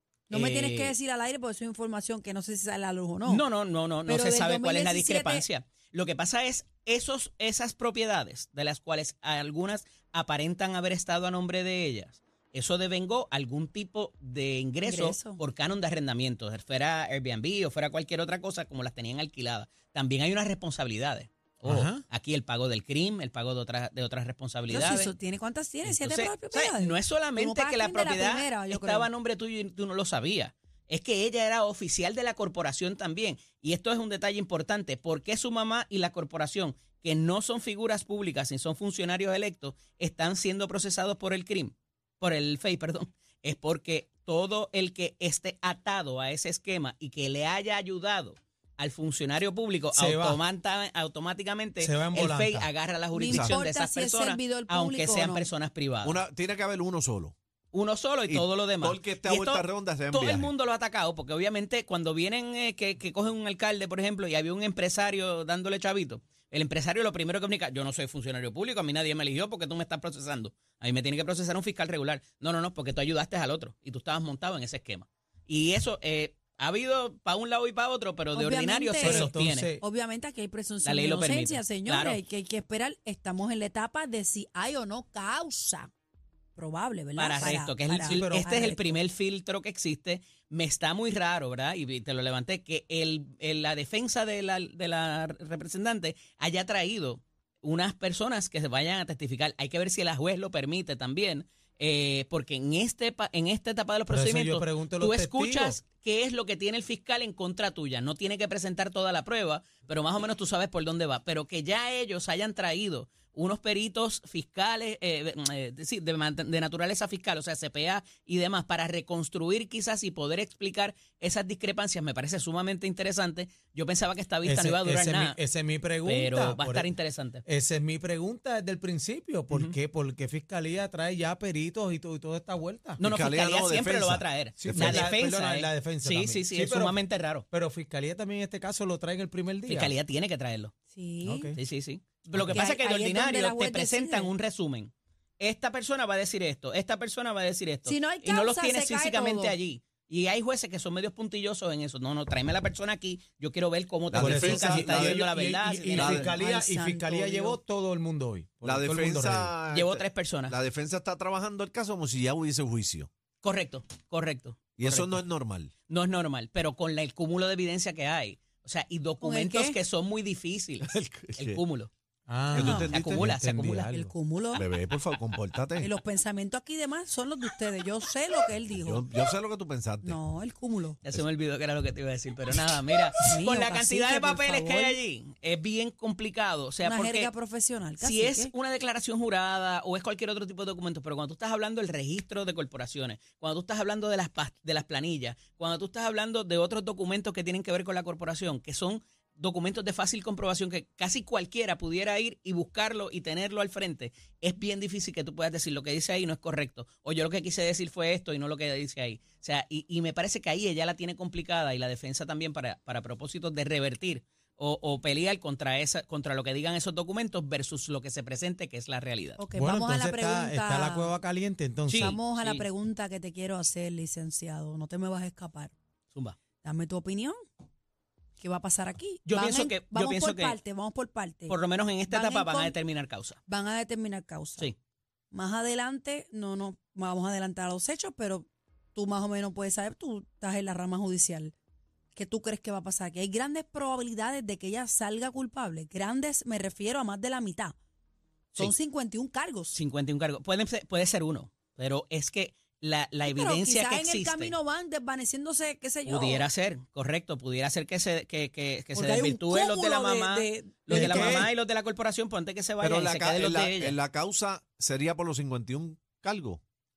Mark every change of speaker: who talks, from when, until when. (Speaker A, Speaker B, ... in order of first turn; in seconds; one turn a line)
Speaker A: 0.3-3.4
Speaker B: 0.3-0.9
Speaker B: 3.2-25.1
Speaker A: 4.0-5.5
Speaker A: 14.8-15.4
Speaker C: 21.6-22.0
Speaker A: 24.7-29.1
Speaker B: 25.8-56.2
Speaker C: 49.9-50.4
Speaker C: 51.8-52.7
Speaker A: 53.1-55.5
Speaker D: 53.3-53.6
Speaker D: 56.0-57.3
Speaker B: 57.7-79.7
Speaker D: 58.3-60.5
Speaker A: 78.3-79.3
Speaker C: 79.0-79.8
Speaker A: 79.8-85.9
Speaker B: 80.8-82.2
Speaker A: 86.5-89.0
Speaker B: 87.2-125.4
Speaker C: 88.0-88.7
Speaker C: 104.1-105.8
Speaker C: 124.4-126.9
Speaker B: 126.0-127.4
Speaker C: 127.4-133.0
Speaker B: 133.0-137.4
Speaker D: 133.0-135.1
Speaker C: 134.6-139.9
Speaker B: 139.7-140.7
Speaker A: 140.9-141.5
Speaker C: 141.2-141.6
Speaker B: 141.6-156.2
Speaker C: 142.3-142.6
Speaker A: 142.4-144.3
Speaker A: 147.8-149.6
Speaker D: 154.1-155.2
Speaker C: 154.2-159.5
Speaker D: 155.9-156.3
Speaker A: 156.2-157.6
Speaker D: 158.6-163.1
Speaker B: 159.7-160.6
Speaker B: 163.4-165.2
Speaker D: 164.8-165.7
Speaker B: 165.9-171.9
Speaker A: 169.2-169.8
Speaker D: 170.8-171.6
Speaker C: 172.3-174.1
Speaker D: 172.5-173.3
Speaker A: 172.6-172.9
Speaker B: 172.7-173.9
Speaker A: 173.9-174.6
Speaker D: 174.5-175.9
Speaker A: 175.8-179.1
Speaker D: 178.7-180.2
Speaker A: 180.0-181.0
Speaker B: 181.0-187.3
Speaker A: 183.2-185.0
Speaker A: 186.8-188.5
Speaker B: 188.0-219.4
Speaker A: 219.4-221.2
Speaker C: 219.5-222.2
Speaker B: 221.9-222.6
Speaker A: 221.9-225.7
Speaker B: 226.1-226.4
Speaker A: 226.6-227.3
Speaker A: 228.4-232.8
Speaker B: 229.2-230.6
Speaker B: 231.5-233.4
Speaker A: 233.5-234.7
Speaker A: 235.3-241.5
Speaker A: 242.1-247.8
Speaker A: 248.5-249.8
Speaker B: 249.7-254.5
Speaker A: 253.2-256.5
Speaker B: 256.1-264.0
Speaker A: 258.9-261.5
Speaker C: 260.9-261.5
Speaker D: 262.8-266.6